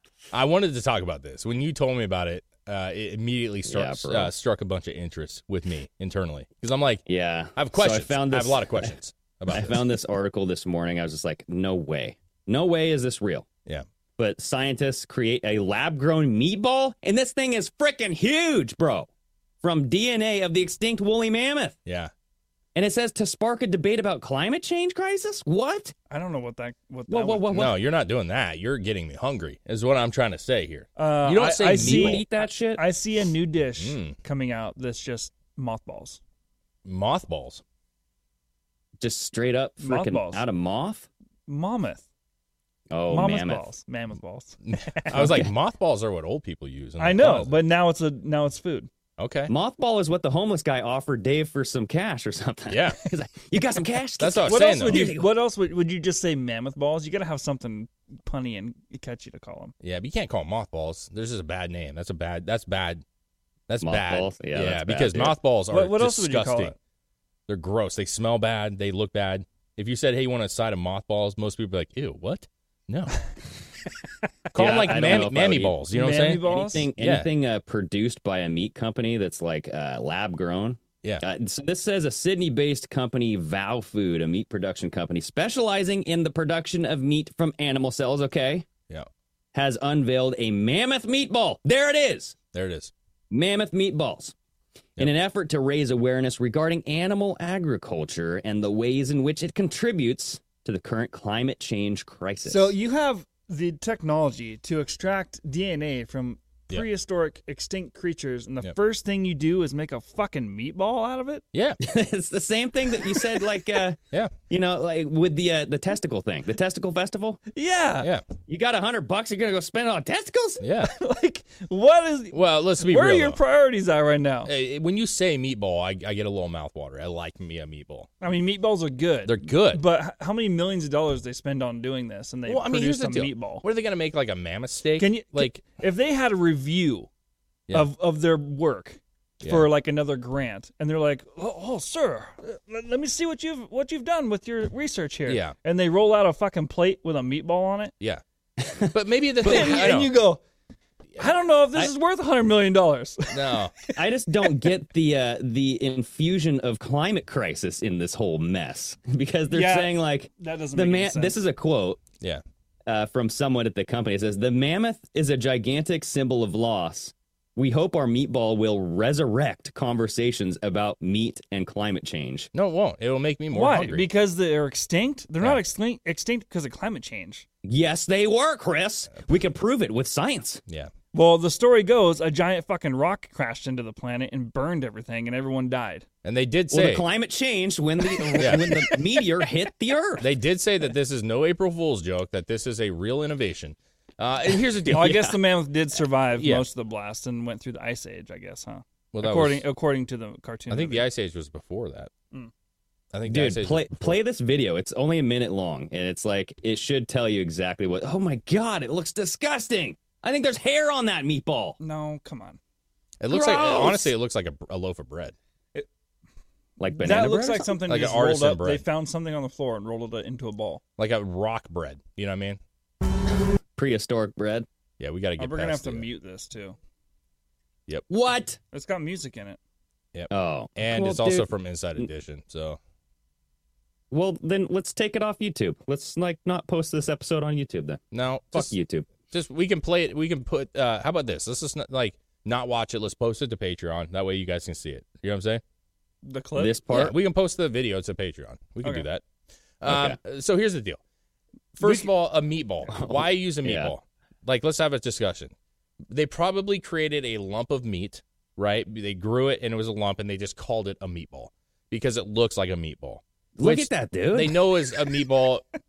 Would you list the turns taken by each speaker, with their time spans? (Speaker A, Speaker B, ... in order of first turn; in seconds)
Speaker A: 0.3-7.0, 7.5-9.9, 21.9-22.1, 27.5-32.2, 33.8-34.2, 36.8-37.6, 44.6-47.6, 49.2-49.5, 52.7-53.0, 54.2-55.1, 59.8-63.0, 63.7-66.8, 67.5-73.2, 74.5-77.3, 92.5-92.9, 111.5-111.8, 120.6-120.9, 122.3-123.4, 124.4-128.1, 129.2-129.8, 132.5-135.6, 139.4-139.7, 145.2-145.5, 148.9-150.1, 153.3-153.7, 172.5-174.0, 180.7-180.9, 186.2-187.0, 188.4-188.8, 190.2-195.3, 196.4-196.6, 199.1-199.6, 200.7-202.1, 203.1-204.2, 213.2-215.3, 217.8-218.8, 221.0-222.6, 225.0-226.1, 230.1-232.8, 238.1-238.7, 239.3-245.6, 246.9-249.2, 249.8-251.0, 251.8-255.5, 256.1-265.6
Speaker B: 3.7-4.3, 7.1-8.9, 9.5-13.5, 14.2-19.1, 19.6-21.8, 22.7-25.9, 27.1-27.7, 31.7-32.8, 39.0-41.1, 42.9-43.6, 45.1-45.5, 49.5-55.3, 63.8-65.3, 74.5-88.7, 89.5-92.4, 93.3-94.3, 95.0-102.7, 111.8-114.0, 114.5-117.4, 118.5-120.6, 148.6-149.9, 153.9-162.0, 162.9-172.5, 177.6-180.6, 186.7-190.3, 194.9-195.2, 203.2-211.8, 213.3-214.1, 216.8-217.7, 223.8-224.7, 228.1-228.6, 230.3-232.1, 234.1-239.1, 246.5-247.1, 249.8-250.2, 252.9-253.9, 263.6-264.6
Speaker C: 26.1-27.7, 31.0-36.2, 39.8-40.4, 41.5-42.0, 43.1-45.4, 47.0-48.9, 54.4-59.7, 65.7-66.7, 75.9-76.9, 102.5-111.4, 117.5-118.1, 120.8-124.5, 128.2-133.6, 135.0-137.1, 137.7-147.9, 149.4-150.4, 151.2-154.7, 159.5-161.4, 173.5-177.4, 181.1-186.1, 188.1-189.0, 194.9-201.1, 211.8-212.6, 217.0-220.8, 225.4-226.8, 228.7-229.6, 246.2-246.8